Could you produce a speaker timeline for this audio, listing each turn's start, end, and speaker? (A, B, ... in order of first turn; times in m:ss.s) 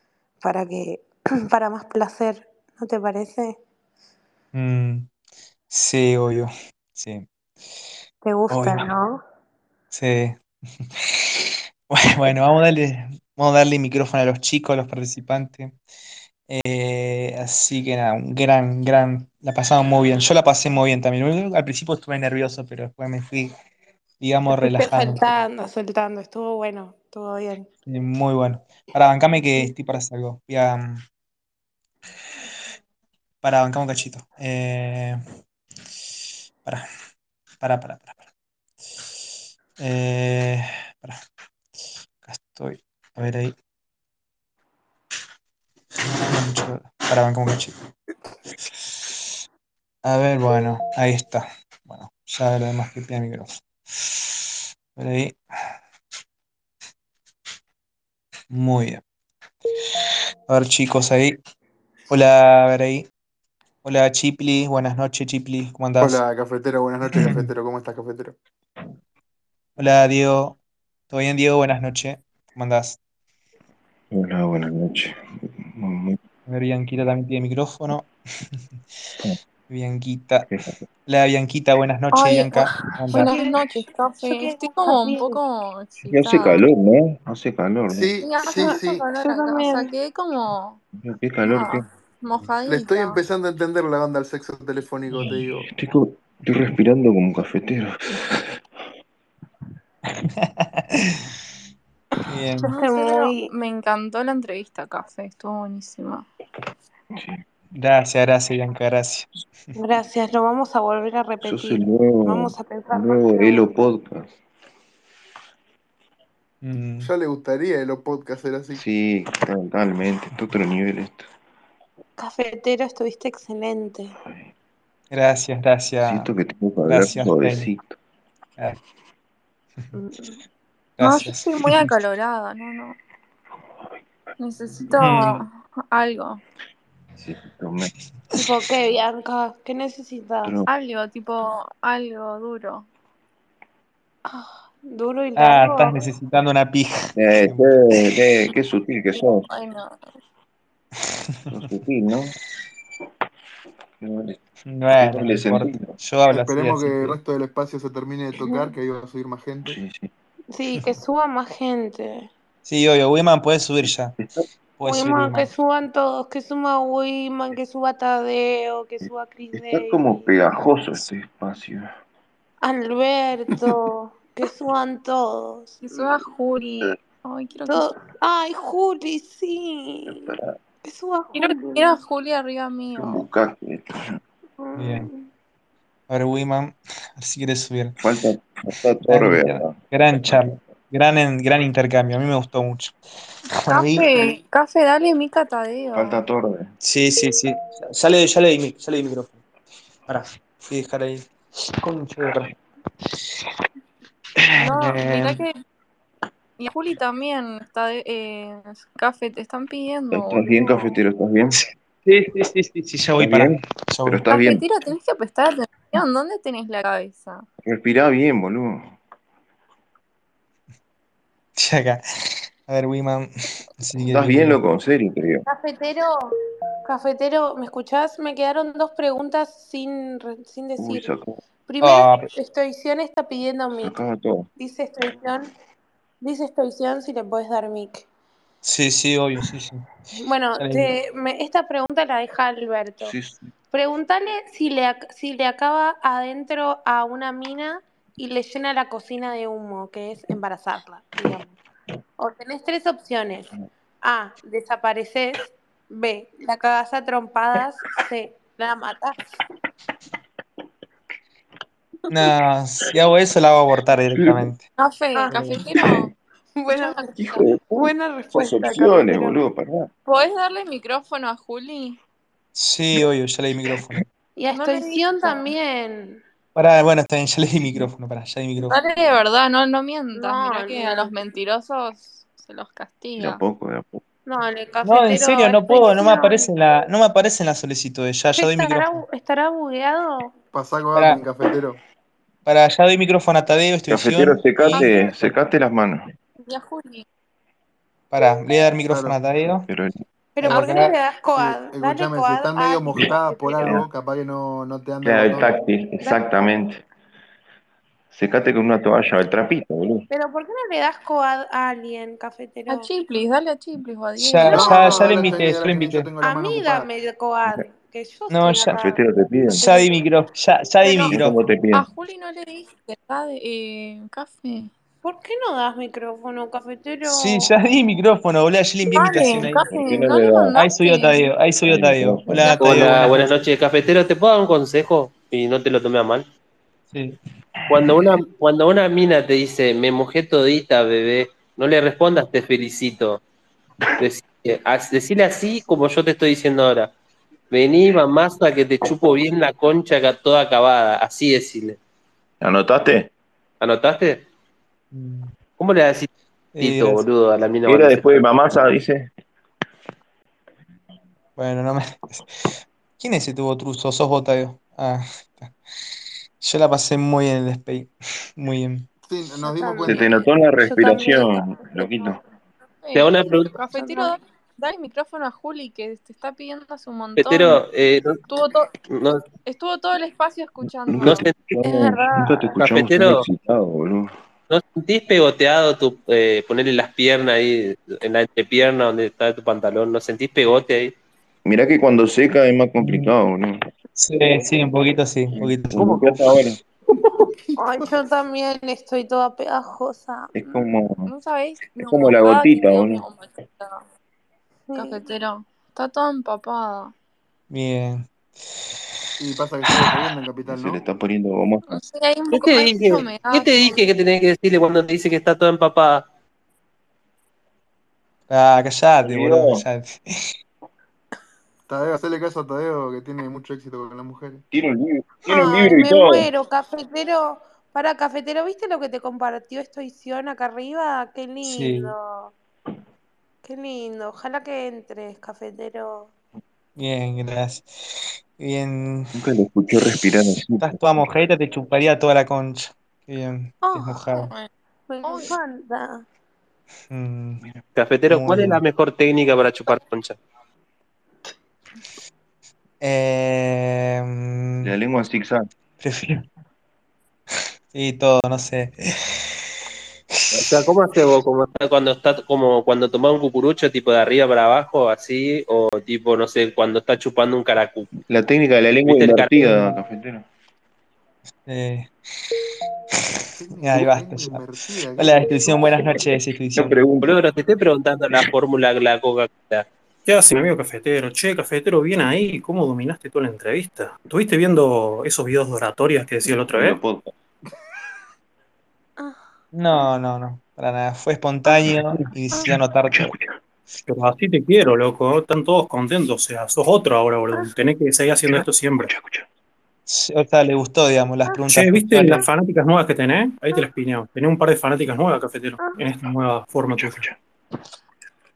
0:00.4-0:03.6 A
0:04.5-0:05.1 B
0:05.7-0:07.3 B
0:08.2-0:09.2 A
0:08.5-0:08.9 B
0:09.9-0:15.7 B
0:16.5-0:23.5 B
0:24.2-0:25.3 B
0:24.6-0:27.7 A
0:27.9-0:31.0 B
0:33.4-0:35.2 B
0:37.6-0:38.2 B
0:39.8-0:41.2 B
0:42.2-0:43.6 B
0:46.0-0:47.7 B
0:50.0-0:55.4 B
0:58.5-0:59.0 B
0:59.9-1:01.4 B
1:02.1-1:03.1 B
1:03.8-1:06.2 B
1:06.0-1:08.4 C
1:07.0-1:07.5 B
1:09.8-1:10.6 B
1:11.1-1:13.0 B
1:14.1-1:16.2 D
1:16.5-1:18.6 B
1:19.7-1:20.5 B
1:20.5-1:20.8 D
1:21.0-1:23.3 B
1:22.1-1:26.6 E
1:22.9-1:25.4 A
1:26.0-1:28.1 D
1:27.9-1:29.0 C
1:28.2-1:30.8 E
1:28.5-1:29.9 A
1:31.0-1:31.9 D
1:31.4-1:33.2 E
1:32.6-1:35.7 C
1:35.1-1:38.6 D
1:40.1-1:41.3 B
1:42.3-1:42.7 B
1:42.6-1:46.3 E
1:42.6-1:43.5 A
1:47.8-1:49.3 B
1:49.7-1:53.8 A
1:51.4-1:54.3 D
1:56.6-1:57.1 B
1:57.0-1:58.8 C
1:58.8-2:01.3 D
2:02.2-2:04.1 A
2:05.1-2:06.3 B
2:06.0-2:07.9 D
2:06.9-2:07.7 B
2:09.9-2:10.4 A
2:11.0-2:11.9 B
2:11.0-2:13.0 E
2:14.4-2:16.4 E
2:15.0-2:15.4 B
2:17.2-2:17.9 D
2:18.3-2:20.5 A
2:20.7-2:22.9 E
2:24.3-2:26.0 A
2:25.4-2:27.7 B
2:27.2-2:29.5 D
2:29.1-2:29.9 E
2:31.3-2:31.6 B
2:31.5-2:32.4 D
2:34.0-2:34.4 D
2:34.7-2:37.2 B
2:35.0-2:36.0 D
2:36.3-2:39.8 C
2:38.4-2:38.7 A
2:39.6-2:40.1 D
2:40.5-2:42.3 A
2:42.6-2:44.2 B
2:44.8-2:45.5 B
2:44.9-2:50.3 A
2:49.5-2:51.9 D
2:52.6-2:55.8 A
2:55.8-2:57.9 E
2:57.7-3:02.0 A
3:00.1-3:00.6 D
3:01.3-3:03.2 E
3:03.0-3:04.2 D
3:04.6-3:05.2 A
3:04.8-3:05.1 B
3:06.1-3:08.0 B
3:08.0-3:09.7 D
3:09.0-3:13.0 B
3:13.6-3:14.4 B
3:13.7-3:16.2 E
3:15.9-3:16.7 D
3:16.8-3:19.4 B
3:20.1-3:21.3 B
3:21.8-3:22.6 B
3:24.4-3:25.4 B
3:24.6-3:25.6 E
3:26.6-3:30.9 E
3:30.1-3:31.6 D
3:31.5-3:34.2 B
3:33.2-3:34.6 D
3:34.3-3:37.4 E
3:37.6-3:39.0 D
3:41.6-3:44.6 B
3:44.1-3:45.4 D
3:45.5-3:46.3 A
3:46.9-3:51.1 A
3:50.8-3:51.4 D
3:51.7-3:54.0 A
3:51.8-3:52.3 B
3:53.8-3:54.5 D
3:54.6-3:55.5 A
3:56.2-3:58.0 A
3:58.6-3:59.8 B
4:00.2-4:03.1 A
4:00.6-4:00.9 B
4:03.0-4:03.5 D
4:03.7-4:11.6 A
4:12.2-4:13.5 A
4:14.0-4:19.2 A
4:22.1-4:24.6 B
4:24.2-4:24.5 D
4:24.8-4:26.1 E
4:25.2-4:25.6 A
4:25.6-4:26.0 D
4:26.6-4:27.1 A
4:26.7-4:27.2 E
4:27.1-4:29.9 D
4:27.7-4:29.4 A
4:30.0-4:32.0 E
4:32.6-4:34.0 B
4:34.4-4:36.2 A
4:34.5-4:35.4 E
4:36.6-4:38.8 B
4:38.6-4:43.4 E
4:40.1-4:41.2 A
4:43.2-4:44.0 D
4:44.3-4:46.5 A
4:44.8-4:49.0 B
4:48.4-4:50.3 A
4:50.5-4:51.8 C
4:50.9-4:51.2 B
4:52.4-4:54.9 B
4:53.9-4:56.0 D
4:56.4-4:57.0 E
4:58.1-4:59.7 B
4:58.9-4:59.2 C
4:59.7-5:00.0 D
5:00.4-5:03.7 A
5:00.4-5:01.0 B
5:01.4-5:05.6 C
5:03.1-5:03.9 D
5:05.0-5:06.8 D
5:08.1-5:10.1 D
5:10.1-5:12.9 A
5:12.7-5:15.2 E
5:14.2-5:16.1 B
5:14.5-5:16.9 C
5:16.2-5:19.9 A
5:18.3-5:18.8 B
5:18.7-5:19.6 D
5:19.6-5:21.4 B
5:20.8-5:21.1 E
5:21.1-5:21.9 D
5:21.7-5:24.7 E
5:25.0-5:27.5 A
5:27.0-5:29.7 B
5:28.9-5:31.3 E
5:29.7-5:30.6 D
5:30.6-5:33.4 B
5:31.6-5:32.6 D
5:32.3-5:33.0 E
5:32.6-5:36.2 F
5:36.9-5:37.2 B
5:37.7-5:43.2 F
5:44.0-5:46.9 F
5:47.5-5:51.8 F
5:52.4-5:53.1 D
5:53.6-5:54.2 F
5:54.9-5:55.3 B
5:55.6-5:56.1 F
5:56.6-5:57.0 B
5:56.6-5:58.3 F
5:57.7-5:59.1 D
6:01.4-6:05.5 B
6:06.4-6:08.9 B
6:09.1-6:10.1 C
6:09.4-6:12.1 A
6:09.9-6:12.2 D
6:12.8-6:17.6 E
6:12.9-6:13.6 F
6:13.7-6:14.1 A
6:17.2-6:18.2 F
6:18.3-6:18.7 E
6:18.9-6:19.2 F
6:19.4-6:21.3 E
6:20.9-6:24.1 D
6:21.0-6:21.3 F
6:21.6-6:22.5 A
6:22.6-6:23.2 F
6:24.5-6:30.9 F
6:31.4-6:33.6 D
6:32.8-6:33.1 B
6:34.0-6:36.4 B
6:35.3-6:36.6 D
6:37.5-6:37.9 C
6:37.6-6:40.3 A
6:40.3-6:41.1 D
6:41.0-6:43.8 E
6:41.7-6:43.0 D
6:44.7-6:45.0 A
6:44.7-6:46.9 E
6:47.5-6:48.1 B
6:49.2-6:50.8 C
6:50.5-6:51.8 D
6:51.7-6:53.8 E
6:52.3-6:56.0 F
6:58.3-7:00.0 B
6:59.0-6:59.6 D
7:01.7-7:04.4 C
7:04.5-7:06.3 D
7:05.3-7:12.3 A
7:11.4-7:11.9 B
7:13.4-7:16.1 A
7:16.8-7:19.1 B
7:19.1-7:20.8 D
7:20.6-7:24.3 B
7:23.6-7:24.2 A
7:24.1-7:24.5 E
7:24.9-7:26.0 A
7:25.0-7:25.3 E
7:26.9-7:27.4 B
7:27.8-7:30.2 F
7:28.1-7:28.6 B
7:32.8-7:34.7 B
7:34.6-7:35.5 D
7:35.8-7:36.3 B
7:37.7-7:39.4 B
7:40.1-7:40.5 B
7:40.3-7:47.9 F
7:48.1-7:50.3 D
7:48.8-7:49.5 F
7:49.4-7:49.8 B
7:51.5-7:51.9 B
7:53.2-7:54.4 B
7:53.4-7:55.4 C
7:55.0-7:56.8 B
7:56.6-7:57.2 D
7:57.0-7:59.6 F
8:00.0-8:06.8 G
8:06.4-8:07.1 D
8:09.0-8:09.2 A
8:09.5-8:13.1 B
8:12.9-8:13.4 D
8:13.9-8:18.9 G
8:18.3-8:19.2 D
8:19.9-8:22.3 B
8:21.4-8:27.0 G
8:26.7-8:27.2 D